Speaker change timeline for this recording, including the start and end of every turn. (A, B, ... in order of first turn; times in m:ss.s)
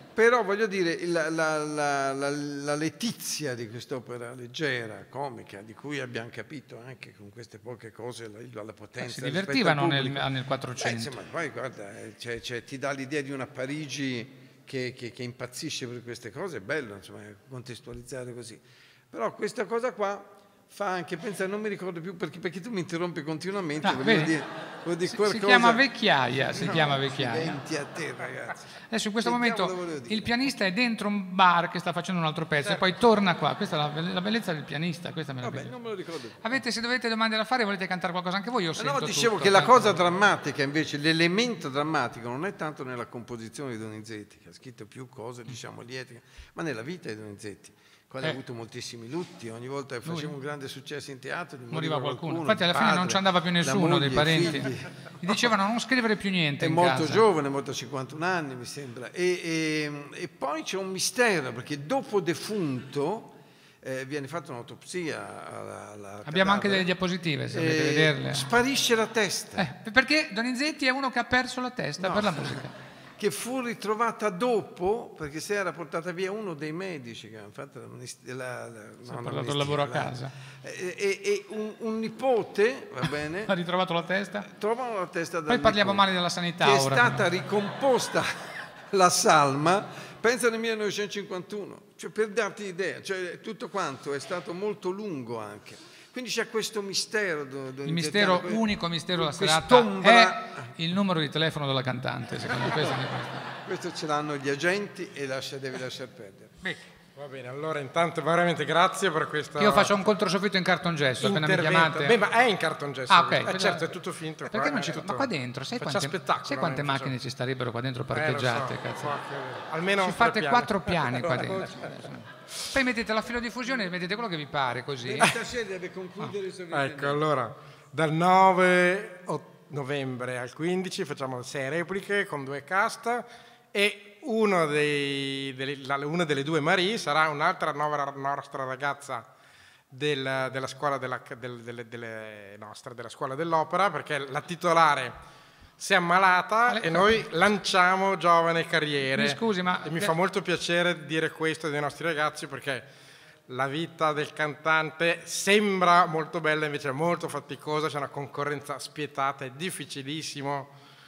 0:00.2-0:25.9 A
0:09.0-0:11.2 B
0:23.8-0:24.4 B
0:25.0-0:27.6 B
0:26.5-0:30.4 A
0:28.9-0:35.7 B
0:35.4-0:36.5 A
0:36.4-0:40.0 B
0:38.8-0:55.4 A
0:50.1-0:50.3 B
0:51.7-0:57.2 B
0:56.6-1:06.9 A
1:06.2-1:08.5 B
1:07.5-1:09.7 A
1:09.6-1:12.8 B
1:12.0-1:12.6 A
1:13.2-1:23.5 A
1:19.1-1:20.4 B
1:23.4-1:24.5 B
1:24.4-1:26.1 A
1:25.5-1:27.3 B
1:26.6-1:40.7 A
1:37.9-1:43.5 B
1:42.6-1:43.0 A
1:43.6-1:46.6 A
1:47.2-1:49.9 C
1:49.6-1:52.2 B
1:51.2-1:57.2 C
1:53.1-1:53.9 B
1:54.5-1:59.2 B
1:58.1-2:02.1 C
2:00.0-2:05.4 B
2:05.0-2:07.2 A
2:06.7-2:19.3 C
2:19.9-2:25.2 C
2:25.8-2:32.9 C
2:26.7-2:27.2 B
2:29.1-2:30.1 B
2:33.5-2:40.7 C